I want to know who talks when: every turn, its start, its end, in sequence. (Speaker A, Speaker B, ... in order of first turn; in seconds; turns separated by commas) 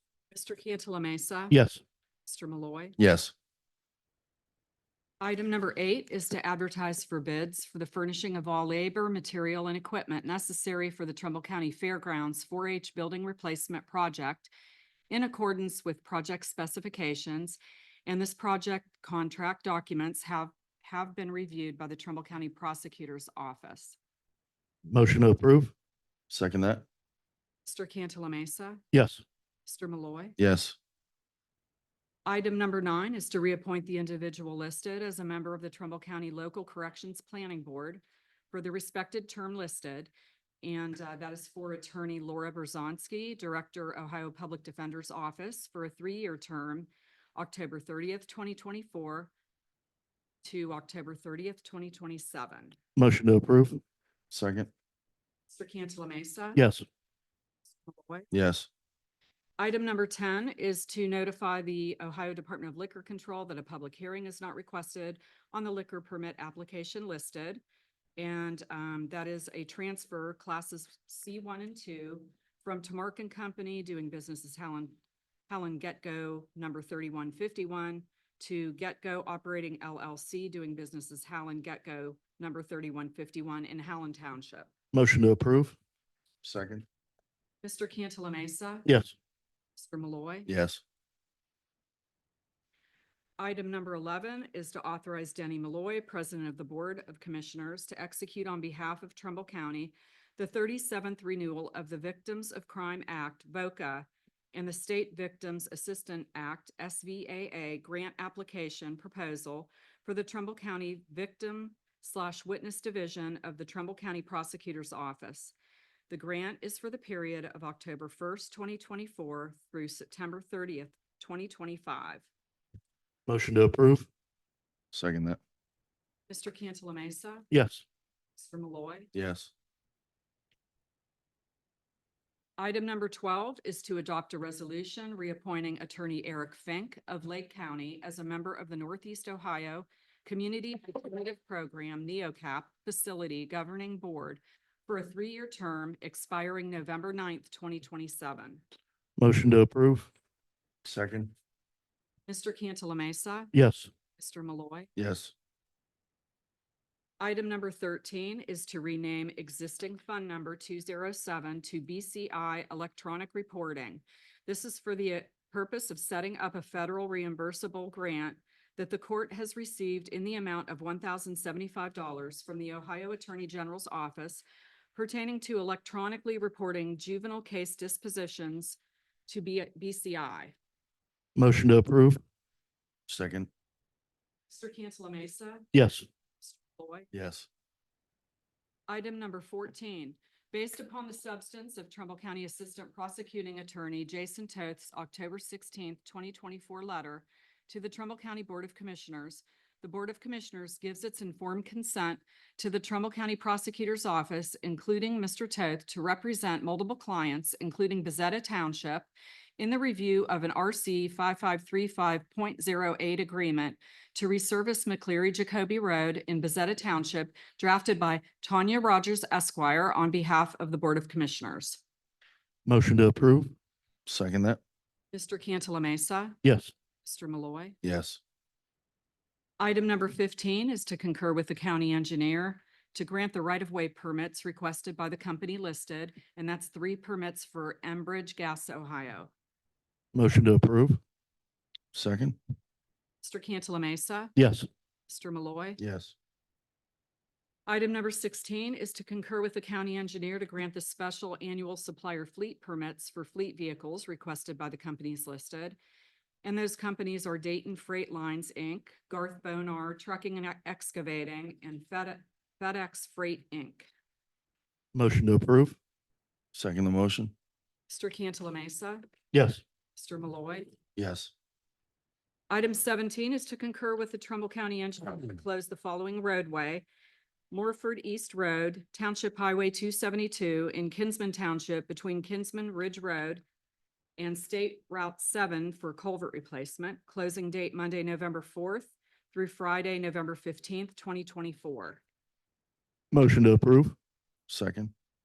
Speaker A: 0.3-1.6, Speaker B: 1.5-1.8, Speaker A: 2.2-2.9, Speaker C: 3.0-3.3, Speaker A: 5.2-14.5, Speaker A: 15.1-24.0, Speaker B: 24.9-25.7, Speaker C: 26.3-26.8, Speaker A: 27.6-28.8, Speaker B: 28.9-29.2, Speaker A: 29.6-30.4, Speaker C: 30.4-30.8, Speaker A: 32.2-49.3, Speaker A: 50.4-52.8, Speaker B: 53.0-53.8, Speaker C: 54.3-54.7, Speaker A: 55.5-56.6, Speaker B: 56.5-56.8, Speaker A: 57.8-58.3, Speaker C: 58.3-58.7, Speaker A: 59.6-67.6, Speaker A: 68.2-84.7, Speaker B: 84.9-85.8, Speaker C: 86.4-86.8, Speaker A: 87.6-88.9, Speaker B: 88.8-89.1, Speaker A: 89.8-90.5, Speaker C: 90.5-90.8, Speaker A: 93.4-115.5, Speaker A: 116.1-122.3, Speaker B: 123.3-124.1, Speaker C: 124.9-125.4, Speaker A: 126.3-127.5, Speaker B: 127.5-127.8, Speaker A: 128.4-129.1, Speaker C: 129.1-129.5, Speaker A: 132.6-148.6, Speaker B: 149.2-150.1, Speaker C: 150.8-151.3, Speaker A: 152.3-153.5, Speaker B: 153.5-153.9, Speaker A: 154.2-154.9, Speaker C: 154.9-155.3, Speaker A: 157.2-180.5, Speaker B: 181.3-182.2, Speaker C: 183.1-183.5, Speaker A: 184.5-185.7, Speaker B: 185.7-186.1, Speaker A: 186.4-187.1, Speaker C: 187.1-187.5, Speaker A: 188.9-221.8, Speaker B: 222.7-223.5, Speaker C: 224.1-224.6, Speaker A: 225.1-226.4, Speaker B: 226.4-226.7, Speaker A: 227.0-227.7, Speaker C: 227.8-228.2, Speaker A: 229.6-239.3, Speaker B: 240.1-241.0, Speaker C: 241.9-242.3, Speaker A: 243.2-244.3, Speaker B: 244.3-244.7, Speaker A: 245.1-245.8, Speaker C: 245.8-246.1, Speaker A: 247.7-255.8, Speaker A: 256.4-263.9, Speaker B: 264.9-265.8, Speaker C: 266.5-267.3, Speaker A: 267.9-269.0, Speaker B: 269.3-269.6, Speaker A: 269.9-270.8, Speaker C: 270.9-271.3, Speaker A: 272.5-276.9, Speaker A: 277.5-283.4, Speaker A: 284.2-292.0, Speaker B: 293.1-293.9, Speaker C: 294.5-294.9